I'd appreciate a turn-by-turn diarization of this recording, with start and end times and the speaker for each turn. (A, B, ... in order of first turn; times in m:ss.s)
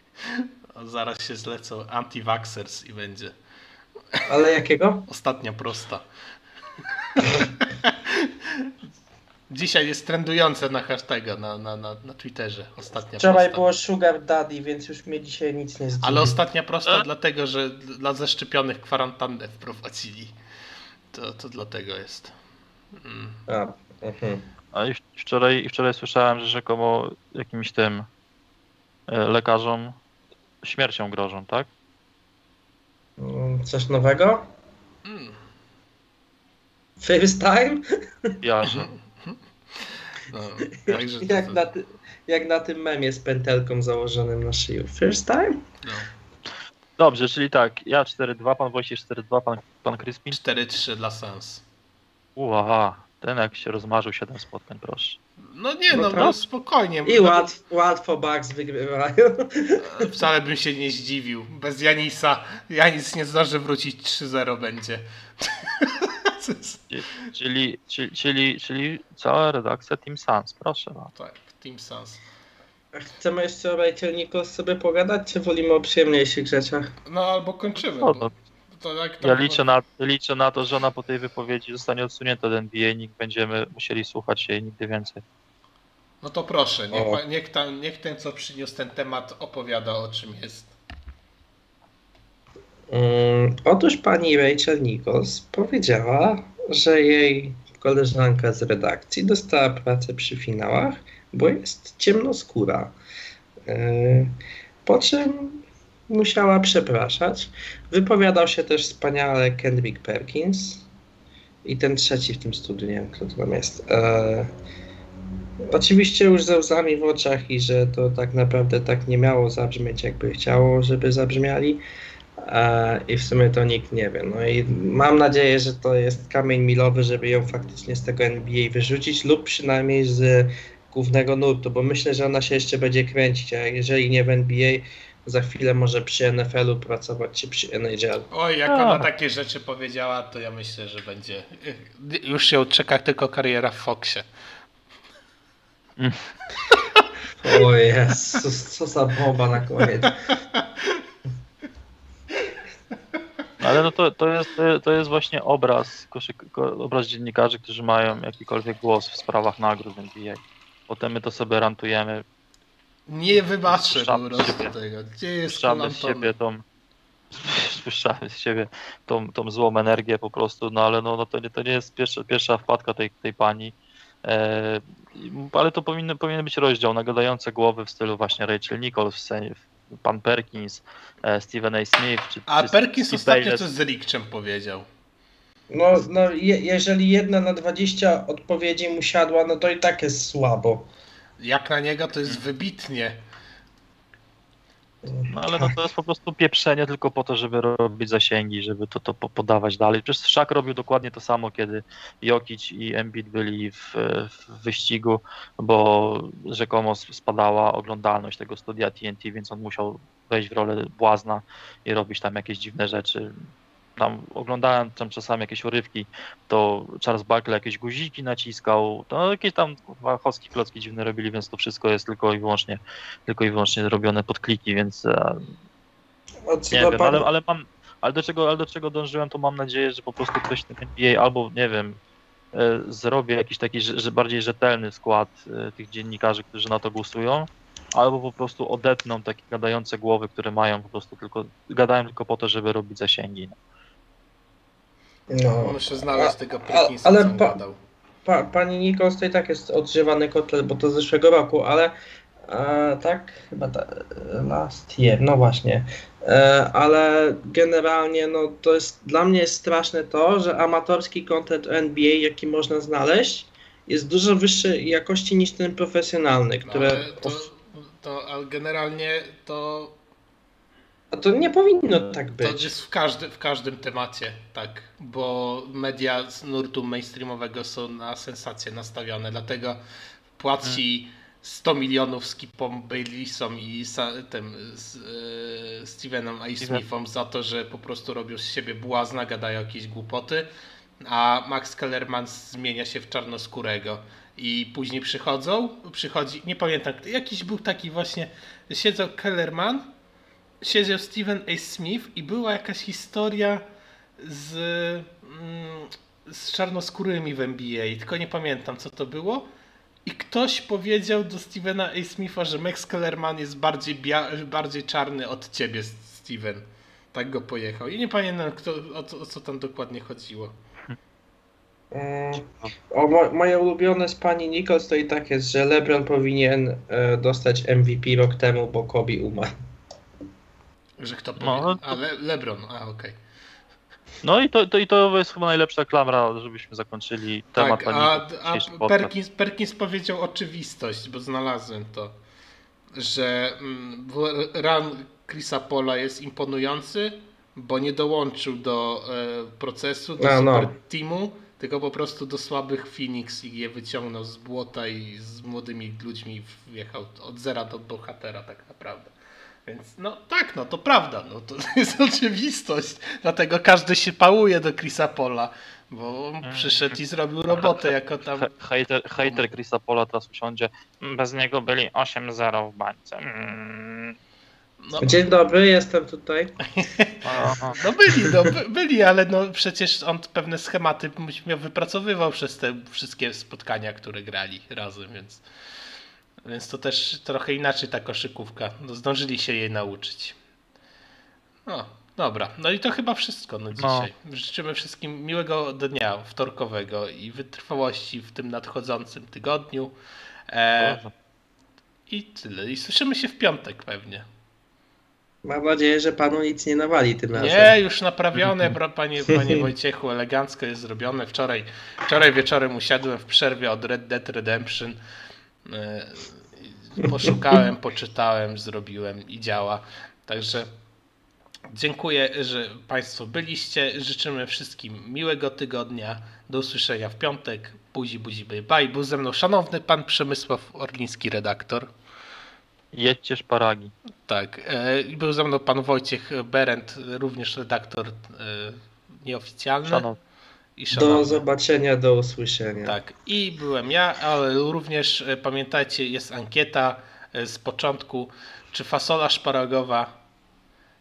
0:00.2-0:03.4 A
0:04.3-0:05.1 B
0:05.1-0:06.0 A
0:07.0-0:08.7 A
0:09.5-0:13.6 A
0:13.2-0:16.4 B
0:16.0-0:20.4 A
0:21.1-0:22.3 A
0:23.0-0:23.4 A
0:23.5-0:24.4 B
0:24.7-0:28.1 C
0:29.1-0:30.0 C
0:30.6-0:31.7 C
0:33.2-0:34.5 B
0:35.0-0:35.4 A
0:37.0-0:38.9 B
0:38.4-0:38.9 C
0:38.7-0:41.6 A
0:40.8-0:45.6 B
0:45.8-0:46.1 A
0:47.0-0:50.4 C
0:50.3-0:51.6 A
0:52.4-0:55.2 C
0:55.5-0:57.5 A
0:55.9-0:56.4 B
0:57.1-1:00.1 B
0:59.8-1:06.8 A
1:06.9-1:11.1 C
1:11.2-1:12.2 A
1:12.9-1:16.9 B
1:17.1-1:19.6 A
1:17.9-1:18.3 C
1:19.2-1:25.2 C
1:26.2-1:30.7 A
1:26.9-1:27.2 B
1:32.9-1:43.0 B
1:43.7-1:50.9 B
1:51.6-1:54.5 B
1:55.7-2:01.8 B
2:02.4-2:18.3 B
2:18.3-2:24.3 A
2:18.7-2:19.1 C
2:26.6-2:27.0 A
2:27.4-2:30.3 B
2:30.1-2:31.0 A
2:33.6-2:42.2 C
2:43.1-2:46.3 A
2:43.7-2:44.7 C
2:45.4-2:46.6 C
2:47.3-3:03.6 C
3:02.5-3:04.9 A
3:05.7-3:10.9 B
3:11.4-3:13.2 A
3:15.0-3:15.8 B
3:15.3-3:45.5 C
3:46.5-3:47.3 B
3:46.7-3:52.0 C
3:52.5-4:03.6 C
4:05.3-4:07.6 B
4:05.6-4:07.8 A
4:08.2-4:11.9 B
4:12.5-4:27.5 B
4:26.6-4:30.0 A
4:31.1-4:32.7 B
4:32.4-4:39.8 A
4:40.4-4:50.5 A
4:51.0-4:59.9 A
5:00.6-5:03.6 A
5:04.2-5:09.5 A
5:10.1-5:20.6 A
5:21.9-5:29.5 B
5:31.0-5:33.2 A
5:31.4-5:32.0 C
5:34.2-5:39.1 C
5:37.6-5:42.2 A
5:43.0-5:59.1 A
5:50.2-5:50.8 B
5:59.7-6:08.5 A
6:06.4-6:07.0 C
6:07.5-6:14.2 C
6:14.8-6:15.2 A
6:15.0-6:16.6 B
6:16.7-6:17.1 A
6:17.2-6:17.8 C
6:17.7-6:25.4 A
6:26.4-6:30.4 A
6:31.7-6:40.0 A
6:33.8-6:34.1 C
6:40.5-6:41.0 A
6:40.8-6:41.1 C
6:42.1-6:44.3 A
6:45.4-6:47.8 B
6:47.4-6:55.0 A
6:55.7-7:00.7 A
7:01.7-7:11.9 A
7:12.9-7:13.9 C
7:14.3-7:20.0 A
7:19.8-7:20.2 C
7:20.8-7:21.4 A
7:20.9-7:23.0 B
7:22.8-7:30.1 A